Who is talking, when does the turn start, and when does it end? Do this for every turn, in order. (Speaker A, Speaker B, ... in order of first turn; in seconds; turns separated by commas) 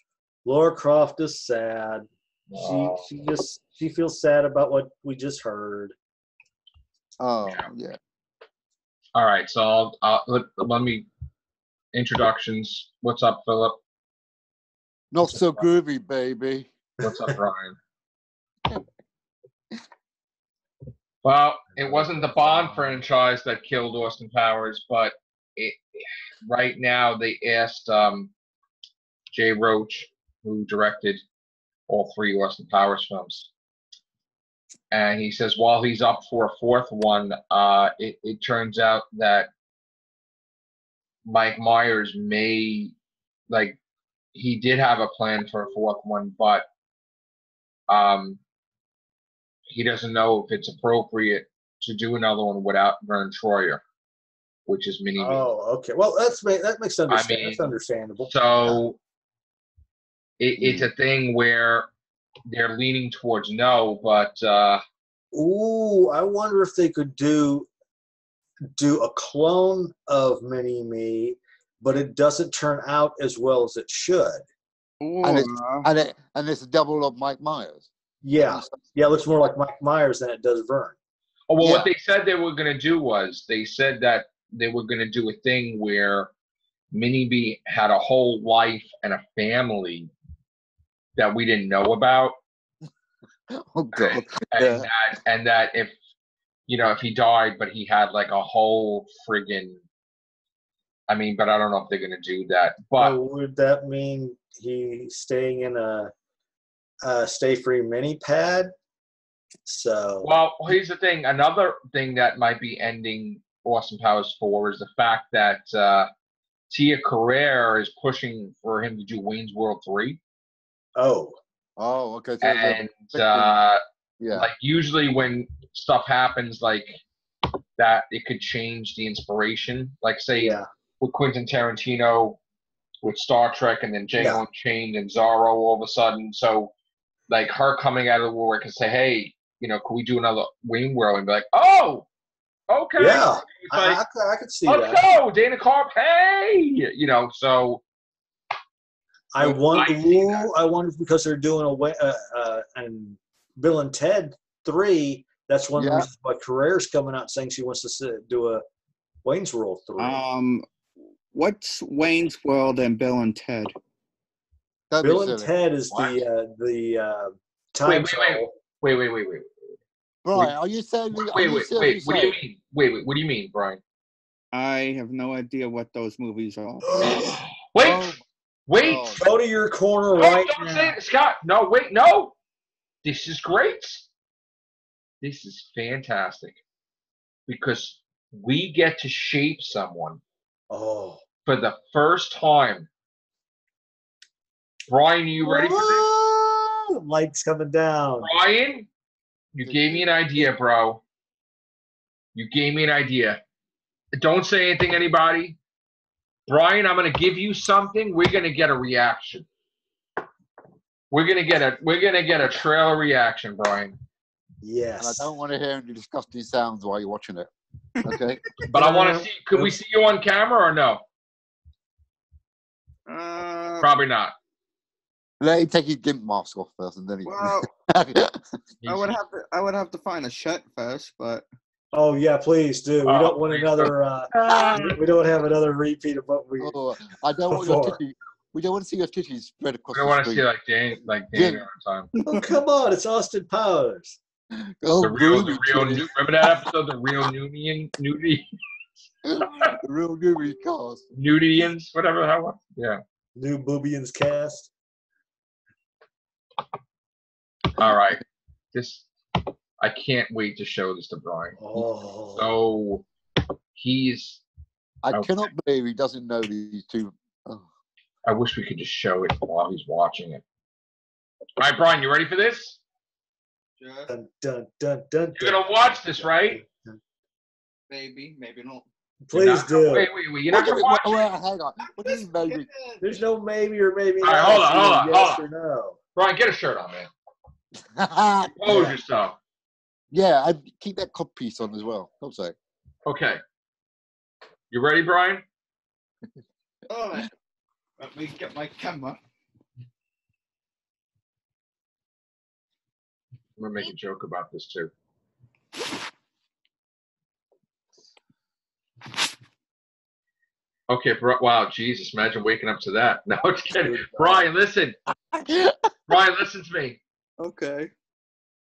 Speaker A: 0.5-5.9, Speaker B: 2.5-3.1, Speaker C: 7.2-8.0, Speaker B: 9.2-11.1, Speaker B: 11.9-13.8, Speaker C: 15.1-16.7, Speaker B: 15.3-15.6, Speaker B: 17.0-17.8, Speaker B: 21.2-28.3, Speaker A: 21.8-22.9, Speaker B: 29.3-31.2, Speaker B: 31.9-33.5, Speaker B: 34.9-39.5, Speaker B: 41.3-43.0, Speaker B: 43.5-43.8, Speaker B: 44.3-46.7, Speaker B: 47.9-48.4, Speaker B: 49.7-53.8, Speaker B: 54.7-55.5, Speaker A: 55.2-58.8, Speaker B: 57.1-57.7, Speaker B: 58.3-59.0, Speaker B: 60.4-61.9, Speaker C: 60.6-60.9, Speaker B: 62.5-64.8, Speaker A: 65.3-67.7, Speaker A: 68.8-74.4, Speaker D: 75.0-75.9, Speaker C: 75.2-77.9, Speaker A: 78.2-81.0, Speaker C: 78.4-78.8, Speaker B: 81.5-86.3, Speaker A: 81.6-81.9, Speaker B: 86.9-90.1, Speaker B: 91.2-92.4, Speaker C: 93.5-94.9, Speaker B: 93.9-96.0, Speaker B: 96.7-99.8, Speaker B: 101.1-103.2, Speaker A: 103.0-106.1, Speaker A: 107.0-108.7, Speaker A: 109.7-110.3, Speaker B: 110.2-116.1, Speaker B: 116.7-120.2, Speaker A: 121.0-121.4, Speaker C: 121.8-123.5, Speaker B: 122.4-123.8, Speaker C: 124.2-124.5, Speaker B: 124.3-127.0, Speaker B: 127.8-132.4, Speaker A: 130.4-130.7, Speaker B: 133.0-136.7, Speaker A: 134.2-134.4, Speaker B: 137.3-142.1, Speaker B: 142.7-144.0, Speaker A: 143.0-145.0, Speaker B: 144.7-147.8, Speaker A: 149.3-158.6, Speaker B: 149.4-150.5, Speaker C: 155.8-156.1, Speaker A: 159.2-160.2, Speaker D: 160.0-160.7, Speaker D: 161.3-163.7, Speaker C: 164.9-165.5, Speaker A: 165.0-168.5, Speaker B: 165.9-166.2, Speaker B: 167.8-169.5, Speaker C: 170.2-172.4, Speaker B: 171.1-173.8, Speaker D: 174.5-177.4, Speaker A: 177.0-177.4, Speaker B: 177.1-179.2, Speaker C: 177.8-178.2, Speaker C: 178.8-179.3, Speaker A: 179.2-180.9, Speaker B: 180.2-182.3, Speaker B: 183.0-184.1, Speaker B: 185.2-186.6, Speaker B: 187.5-190.2, Speaker A: 190.7-191.2, Speaker B: 191.5-192.9, Speaker B: 194.9-196.1, Speaker A: 195.4-198.3, Speaker B: 198.2-198.9, Speaker B: 199.5-201.0, Speaker B: 202.3-203.4, Speaker B: 204.2-205.6, Speaker B: 206.5-209.5, Speaker B: 211.1-214.0, Speaker A: 214.6-215.3, Speaker C: 215.0-217.5, Speaker C: 218.0-218.4, Speaker B: 218.7-221.0, Speaker A: 218.8-219.8, Speaker D: 223.1-223.9, Speaker B: 223.8-224.3, Speaker C: 225.4-228.5, Speaker D: 227.2-227.7, Speaker B: 228.8-229.2, Speaker D: 228.9-231.5, Speaker A: 231.9-236.8, Speaker B: 233.1-235.0, Speaker C: 234.5-234.8, Speaker C: 236.6-240.4, Speaker A: 237.5-238.0, Speaker B: 239.9-242.1, Speaker C: 241.3-241.7, Speaker D: 242.2-242.4, Speaker A: 242.3-244.2, Speaker C: 244.5-246.4, Speaker B: 245.0-248.5, Speaker B: 249.0-249.8, Speaker C: 249.2-251.0, Speaker B: 251.1-253.0, Speaker A: 253.4-254.7, Speaker B: 257.8-261.6, Speaker A: 261.6-262.5, Speaker B: 262.4-263.1, Speaker B: 263.7-264.4, Speaker C: 265.0-267.7, Speaker B: 265.1-265.5, Speaker B: 268.3-270.4, Speaker B: 271.6-272.8, Speaker D: 273.8-274.1, Speaker A: 274.1-275.7, Speaker B: 275.4-276.6, Speaker A: 276.2-277.0, Speaker D: 277.9-278.9, Speaker A: 279.2-280.1, Speaker B: 279.3-281.2, Speaker C: 280.5-282.7, Speaker D: 281.9-283.2, Speaker A: 283.0-286.0, Speaker B: 284.2-285.4, Speaker B: 286.1-287.1, Speaker C: 287.9-288.9, Speaker B: 288.6-289.4, Speaker A: 288.7-289.0, Speaker C: 290.1-292.6, Speaker B: 293.1-293.4, Speaker B: 294.7-295.4, Speaker D: 296.9-297.3, Speaker D: 298.0-299.2, Speaker B: 303.6-304.9, Speaker B: 310.9-315.0, Speaker A: 313.8-314.5, Speaker C: 315.3-315.9, Speaker B: 316.1-317.0, Speaker D: 317.4-317.9